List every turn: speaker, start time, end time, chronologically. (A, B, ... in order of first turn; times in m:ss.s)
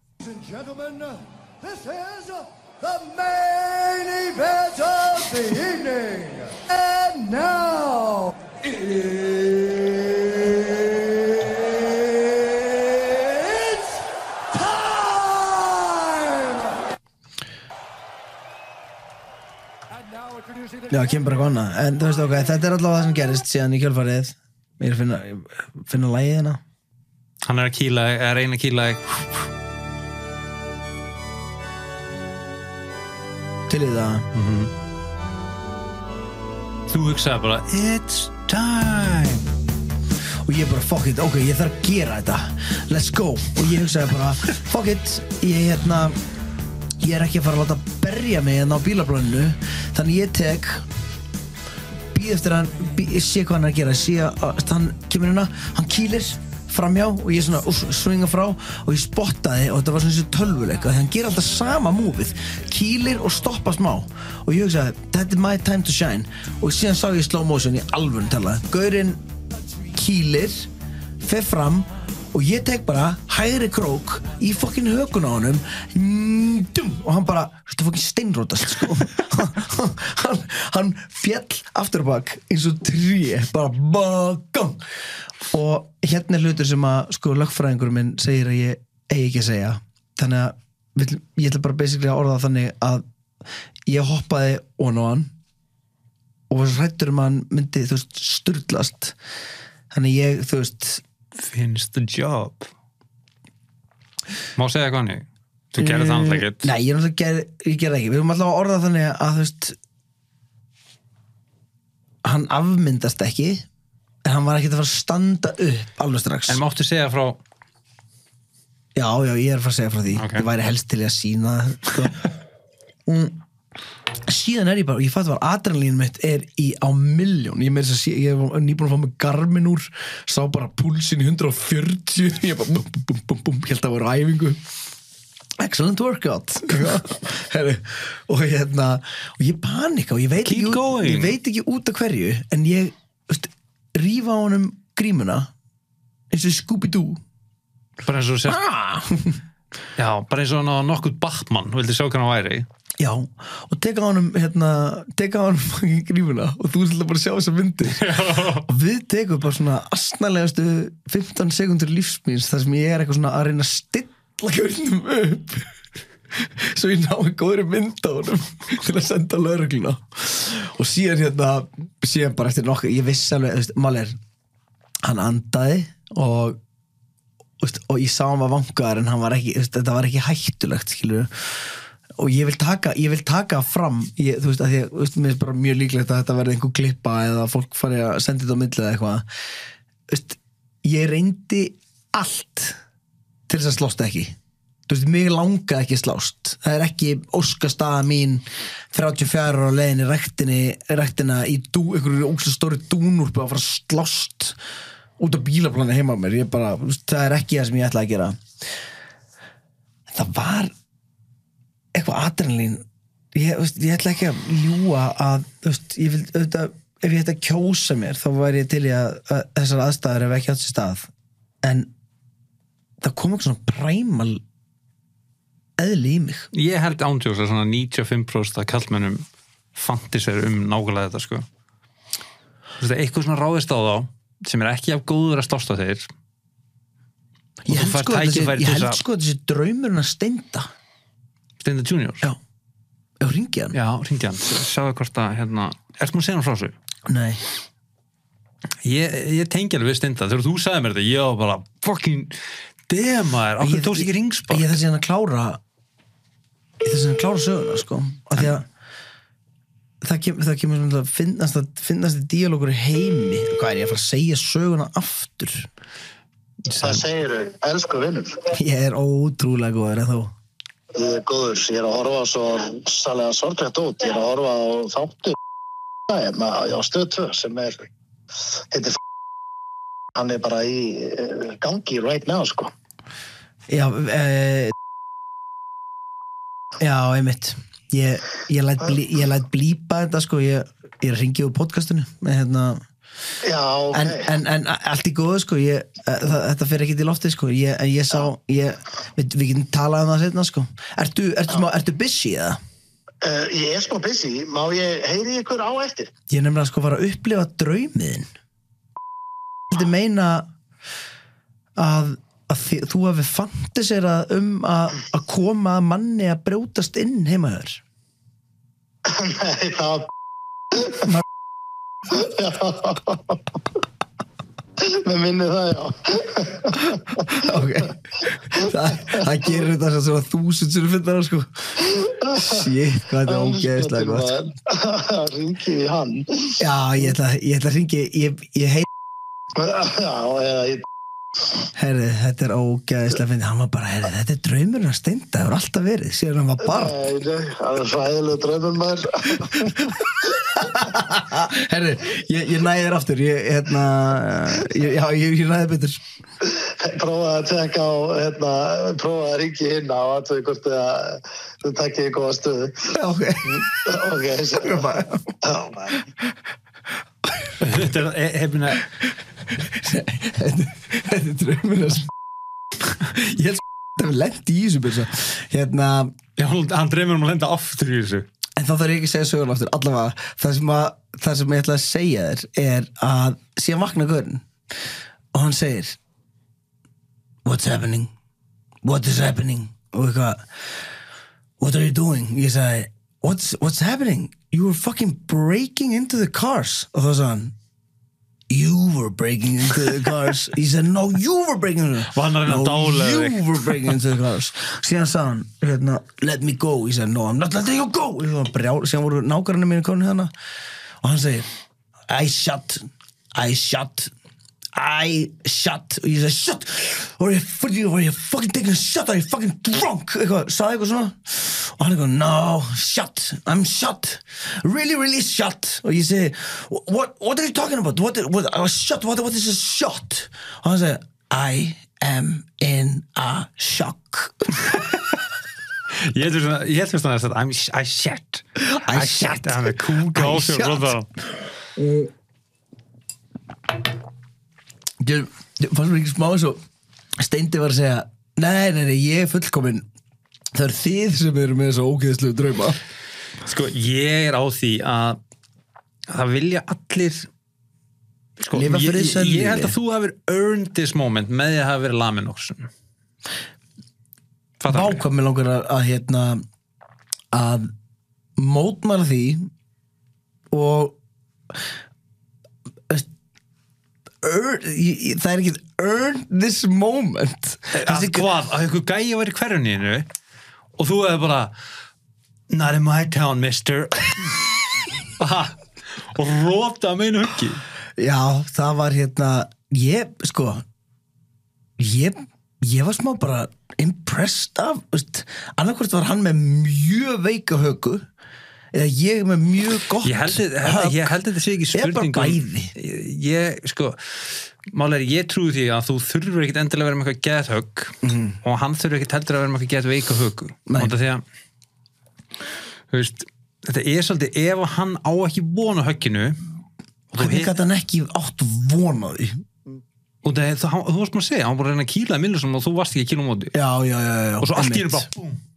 0:00.2-0:10.8 A
0:13.0-0:13.8 A
0:15.0-0:15.6 A
0:20.9-0:26.6 B
0:27.4-0:29.4 C
0:33.7-0:34.3 B
0:34.3-0:34.7 C
0:36.9-0:39.5 C
0:40.4-0:46.2 B
0:47.0-0:50.8 B
0:52.1-1:09.2 B
1:09.9-1:10.7 B
1:11.2-1:24.8 B
1:25.5-1:33.0 B
1:33.8-1:35.3 B
1:36.5-1:39.2 B
1:39.9-1:41.0 B
1:41.4-1:42.7 C
1:44.6-1:46.7 C
1:45.8-1:49.8 B
1:52.2-1:53.6 B
1:54.2-1:56.6 B
1:56.5-1:57.4 C
1:58.9-2:02.3 B
2:00.1-2:00.5 C
2:03.0-2:03.4 B
2:04.2-2:14.6 B
2:15.6-2:25.5 B
2:20.4-2:21.4 C
2:26.3-2:27.2 B
2:28.0-2:28.6 C
2:28.5-2:29.4 B
2:30.0-2:32.7 C
2:33.0-2:45.7 B
2:37.9-2:38.7 C
2:46.3-2:54.2 B
2:55.0-2:56.6 B
2:57.6-3:09.2 B
3:10.1-3:12.8 B
3:13.5-3:14.3 B
3:14.9-3:24.6 B
3:25.2-3:28.4 B
3:30.1-3:30.7 B
3:31.9-3:41.1 B
3:41.6-3:41.9 B
3:43.0-3:44.4 B
3:45.8-3:46.5 B
3:46.5-3:51.4 C
3:52.8-3:56.1 C
3:57.6-4:00.7 B
3:57.7-3:59.0 C
4:01.6-4:02.3 C
4:03.2-4:03.7 B
4:03.7-4:06.8 C
4:07.0-4:07.4 B
4:08.8-4:14.8 C
4:13.6-4:15.6 B
4:16.8-4:18.6 B
4:20.0-4:25.7 B
4:26.6-4:27.0 C
4:26.8-4:28.5 D
4:28.5-4:30.3 B
4:30.9-4:35.3 D
4:36.1-4:37.9 D
4:38.5-4:39.0 D
4:40.1-4:42.7 D
4:43.7-4:44.7 B
4:46.8-4:52.8 B
4:53.4-4:54.3 D
4:53.9-5:02.6 B
5:03.2-5:06.1 D
5:06.3-5:08.3 B
5:09.7-5:10.5 B
5:11.8-5:17.8 B
5:19.0-5:20.1 D
5:20.7-5:21.1 D
5:22.1-5:23.4 D
5:24.8-5:27.4 D
5:27.3-5:34.3 B
5:28.6-5:29.3 D
5:31.8-5:32.6 D
5:33.3-5:36.6 D
5:36.6-5:38.9 B
5:39.5-5:40.8 D
5:41.7-5:47.0 B
5:46.6-5:49.9 D
5:49.6-5:56.0 B
5:56.4-6:02.9 D
6:02.9-6:03.8 B
6:03.6-6:06.0 D
6:04.6-6:05.3 B
6:07.2-6:07.6 B
6:07.6-6:08.9 C
6:09.5-6:12.1 B
6:13.0-6:16.1 B
6:16.4-6:18.3 C
6:18.6-6:24.4 B
6:25.3-6:26.0 B
6:27.4-6:28.1 B
6:28.8-6:30.4 B
6:31.6-6:37.5 B
6:38.5-6:50.3 B
6:42.1-6:43.9 C
6:51.0-6:51.5 B
6:52.1-6:54.1 B
6:54.7-7:14.6 B
7:15.9-7:21.1 C
7:18.6-7:21.0 B
7:21.8-7:22.1 B
7:25.0-7:26.6 B
7:27.2-7:29.8 B
7:30.5-7:32.8 B
7:33.4-7:35.2 C
7:36.1-7:37.3 C
7:38.4-7:42.7 C
7:38.5-7:39.7 B
7:44.6-7:45.0 C
7:44.7-7:46.4 B
7:47.3-7:47.7 B
7:48.4-7:49.5 B
7:50.5-7:51.0 B
7:54.2-7:58.3 B
7:57.7-8:00.1 C
8:00.8-8:01.5 C
8:02.5-8:04.6 C
8:05.1-8:07.6 C
8:08.0-8:10.6 B
8:11.8-8:18.1 B
8:18.7-8:21.1 B
8:20.0-8:31.2 C
8:21.7-8:22.7 B
8:28.0-8:28.4 B
8:30.7-8:30.9 B
8:32.9-8:36.4 C
8:37.1-8:37.6 C
8:37.1-8:39.4 B
8:40.2-8:43.5 C
8:43.5-8:45.1 B
8:44.4-8:45.4 C